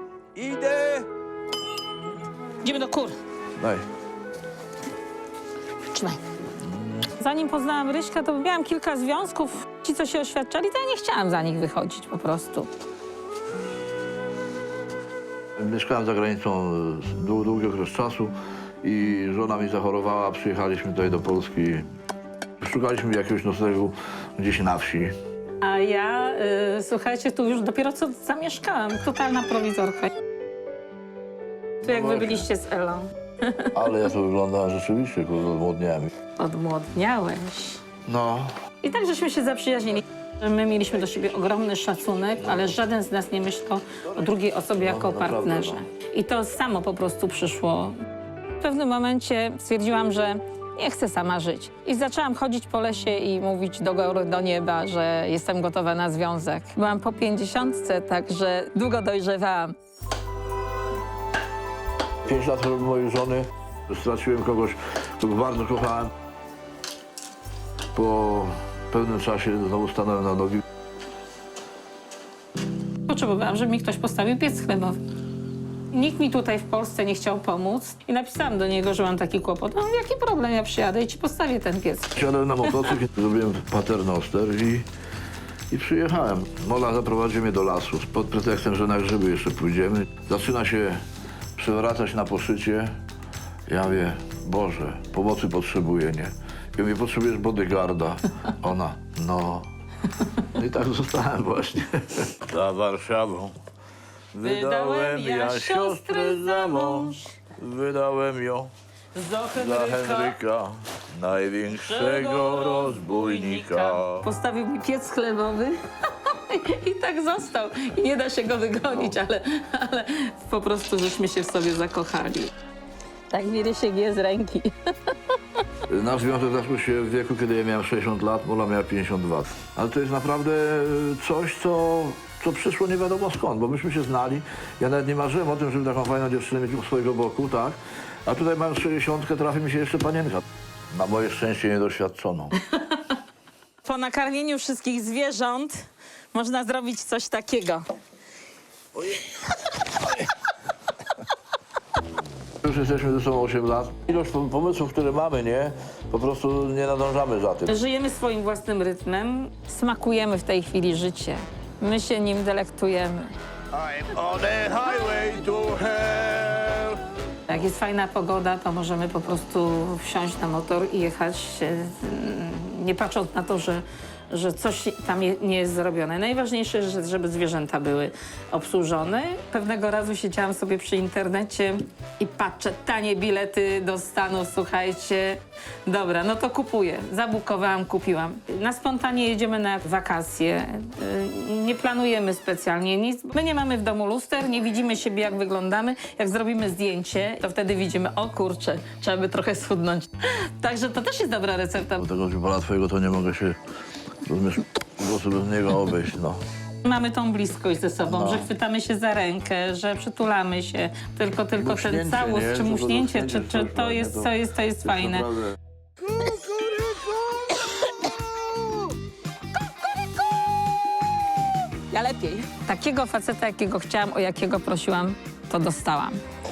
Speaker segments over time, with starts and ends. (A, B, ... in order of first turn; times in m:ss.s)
0:00.4-0:01.0 A
0:02.6-0:03.1 B
0:03.6-0:03.8 A
0:05.9-0:06.2 B
0:06.6-0:07.1 A
0:07.2-0:12.7 B
0:15.6-0:21.9 A
0:22.6-0:25.1 A
0:25.6-0:30.1 B
0:31.8-0:32.5 A
0:31.8-0:34.1 B
0:33.7-0:36.1 A
0:36.4-0:37.8 B
0:38.0-0:38.5 A
0:38.8-0:48.0 B
0:44.1-0:45.8 A
0:48.6-0:59.7 B
1:02.2-1:06.1 A
1:07.9-1:10.6 A
1:13.1-1:15.0 B
1:15.9-1:23.0 B
1:22.2-1:24.9 A
1:25.7-1:31.0 A
1:31.6-1:33.0 A
1:33.7-1:39.7 A
1:40.5-1:43.6 A
1:44.3-1:48.7 A
1:44.4-1:47.4 B
1:49.1-1:50.4 B
1:49.5-1:54.3 A
1:51.7-2:02.5 B
2:03.3-2:05.2 B
2:05.9-2:22.5 A
2:23.8-2:27.8 B
2:29.0-2:29.5 B
2:32.6-2:37.8 A
2:37.6-2:43.3 B
2:43.7-2:47.0 A
2:47.5-3:22.0 B
3:22.0-3:23.6 A
3:24.2-3:26.4 A
3:26.8-3:35.3 B
3:28.1-3:28.5 A
3:31.6-3:34.3 A
3:34.8-3:35.5 A
3:41.9-3:46.2 B